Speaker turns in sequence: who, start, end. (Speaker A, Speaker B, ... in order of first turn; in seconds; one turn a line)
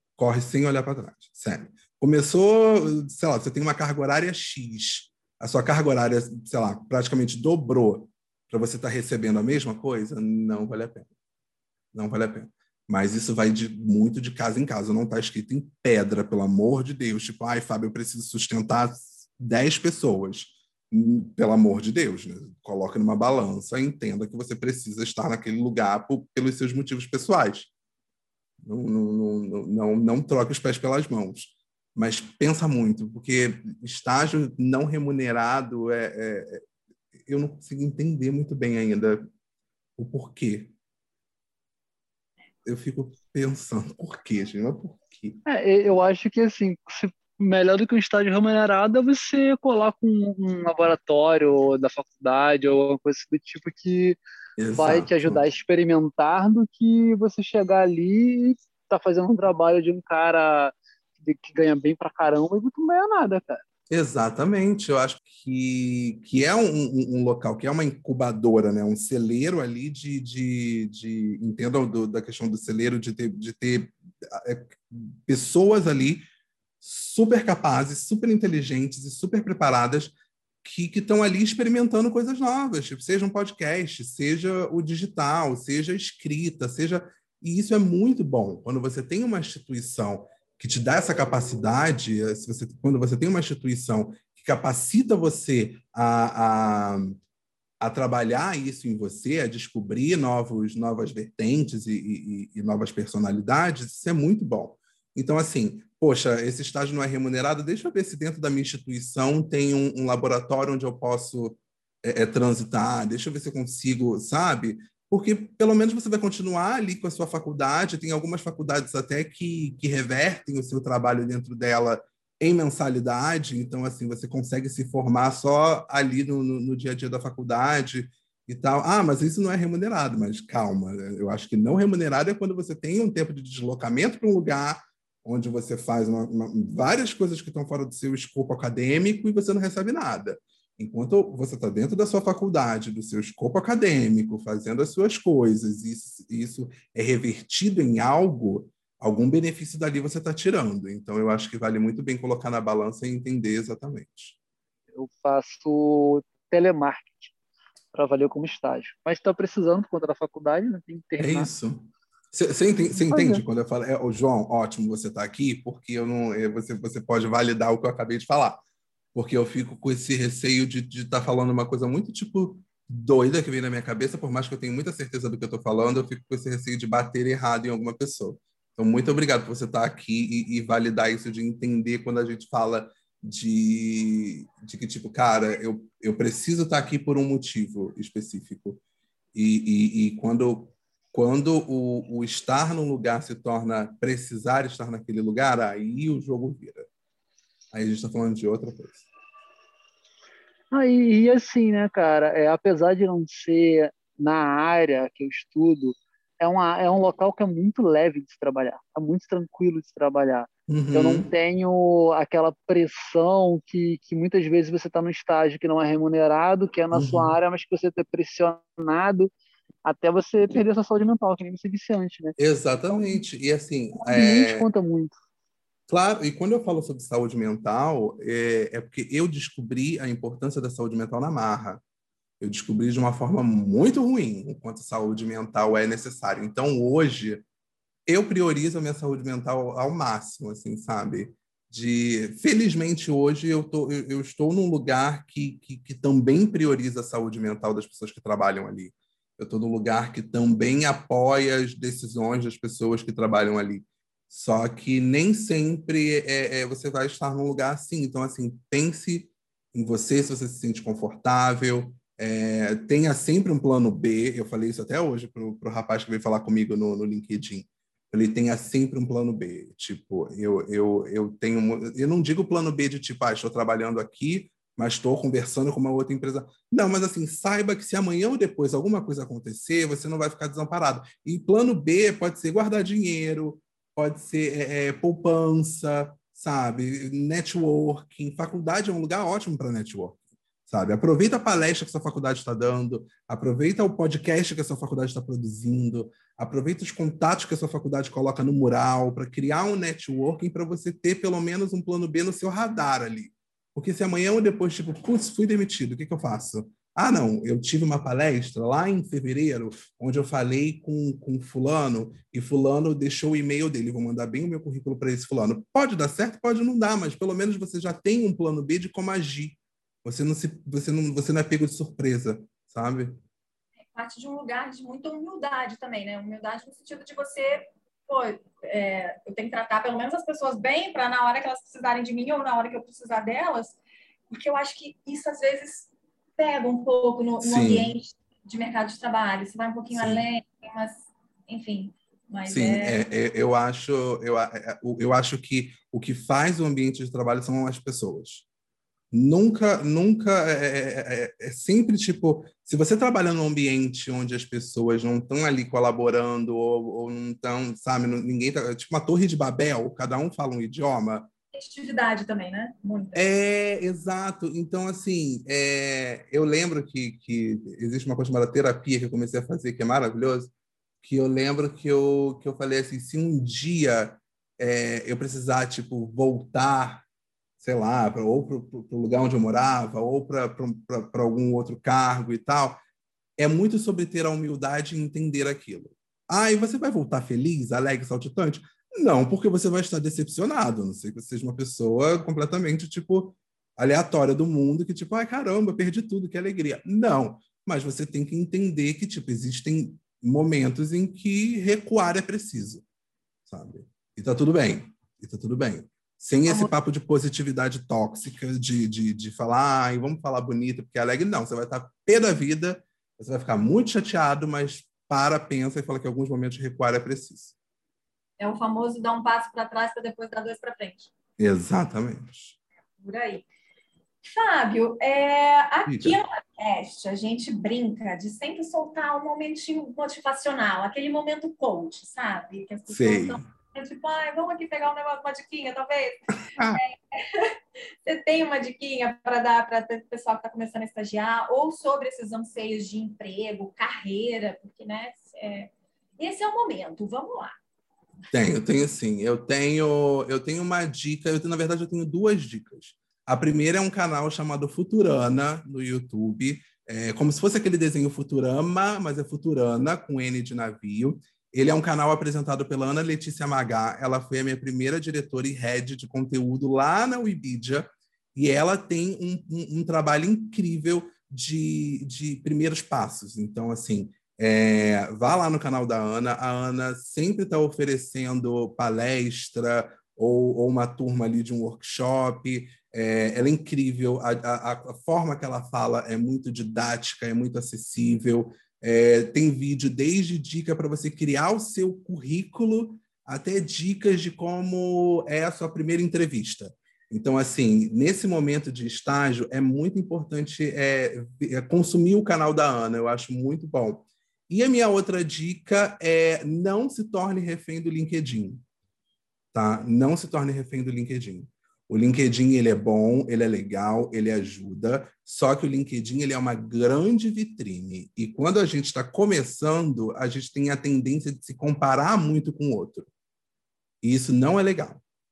Speaker A: 0.2-11.1
Speaker A: 11.9-27.7
Speaker A: 28.6-36.6
Speaker A: 37.2-39.2
Speaker A: 40.0-40.8
Speaker A: 42.6-45.4
Speaker B: 45.5-54.2
Speaker A: 54.6-55.4
Speaker B: 54.8-63.6
Speaker A: 63.9-76.2
Speaker A: 76.8-97.2
Speaker A: 97.8-154.4
Speaker B: 154.9-157.3
Speaker B: 157.9-161.5
Speaker A: 161.2-168.6
Speaker B: 162.9-163.4
Speaker A: 169.1-188.8
Speaker A: 189.3-196.9
Speaker A: 197.7-199.1
Speaker B: 200.7-219.3
Speaker A: 210.7-211.3
Speaker A: 216.9-217.4
Speaker B: 219.8-223.2
Speaker A: 222.4-224.7
Speaker B: 224.0-225.2
Speaker A: 225.9-231.8
Speaker A: 232.4-237.4
Speaker A: 238.1-323.2
Speaker C: 323.9-333.8
Speaker C: 334.3-343.0
Speaker A: 337.4-337.9
Speaker A: 339.9-340.2
Speaker A: 342.5-348.5
Speaker A: 349.1-361.3
Speaker C: 361.5-363.3
Speaker A: 363.1-377.1
Speaker A: 377.6-382.8
Speaker A: 383.4-402.9
Speaker A: 403.5-417.6
Speaker C: 406.5-406.7
Speaker C: 418.4-421.1
Speaker A: 421.4-422.6
Speaker C: 423.0-423.5
Speaker C: 424.2-447.6
Speaker A: 425.9-426.2
Speaker A: 432.9-433.4
Speaker A: 436.6-436.8
Speaker A: 448.3-508.6
Speaker A: 509.5-523.1
Speaker A: 524.0-525.0